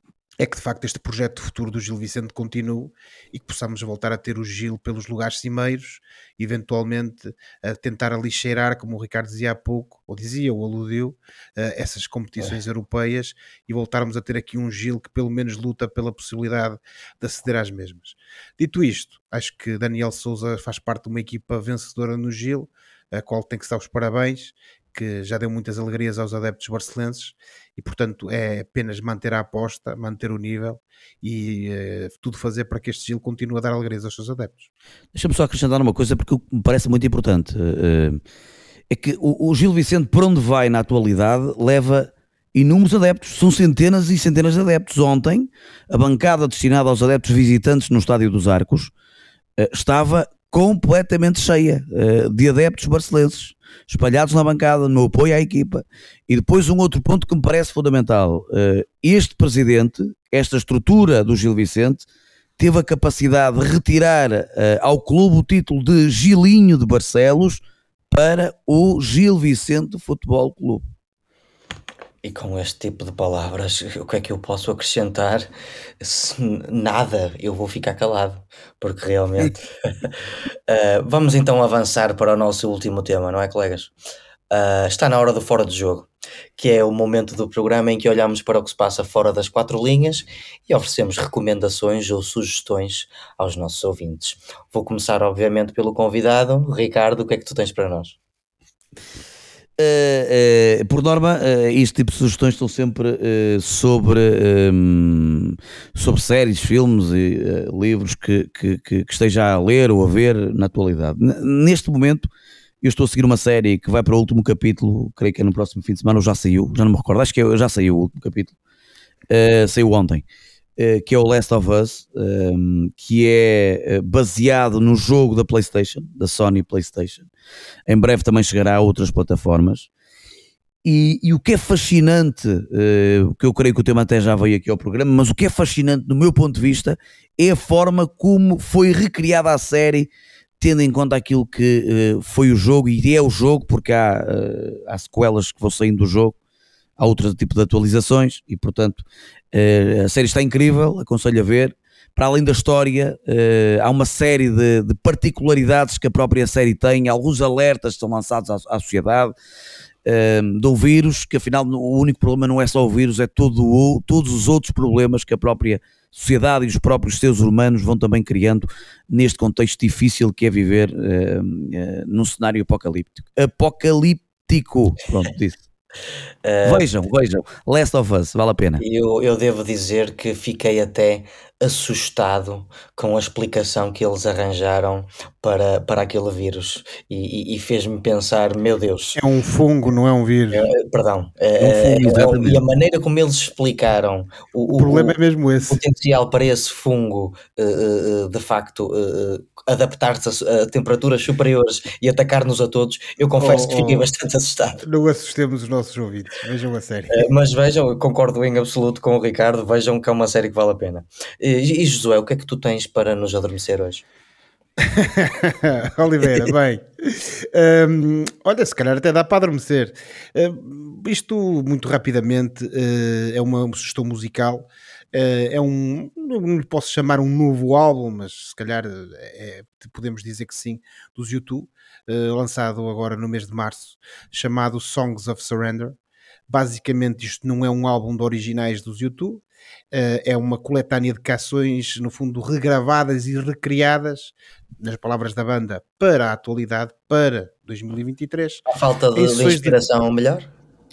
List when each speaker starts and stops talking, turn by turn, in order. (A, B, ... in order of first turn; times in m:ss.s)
0:00.4-0:34.7 A
0:35.1-0:38.2 B
0:38.9-0:48.9 B
0:49.6-1:02.0 B
1:02.6-1:10.8 B
1:12.2-1:15.5 C
1:16.0-1:20.1 C
1:20.7-1:23.9 C
1:24.5-1:38.2 C
1:39.8-1:52.3 B
1:52.8-1:58.5 B
1:59.3-2:00.2 B
2:00.8-2:07.3 B
2:07.9-2:09.9 B
2:10.8-2:20.1 B
2:20.6-2:26.4 B
2:27.0-2:39.3 B
2:40.0-2:55.6 B
2:56.4-2:56.9 C
2:56.6-2:58.8 B
2:58.8-3:09.2 C
3:09.1-3:10.6 A
3:10.5-3:24.8 C
3:11.6-3:12.6 B
3:14.7-3:15.8 A
3:23.4-3:24.1 A
3:24.8-3:27.2 A
3:27.1-3:34.0 C
3:34.8-3:56.0 A
3:56.5-4:08.6 A
4:08.7-4:10.5 C
4:09.1-4:09.8 A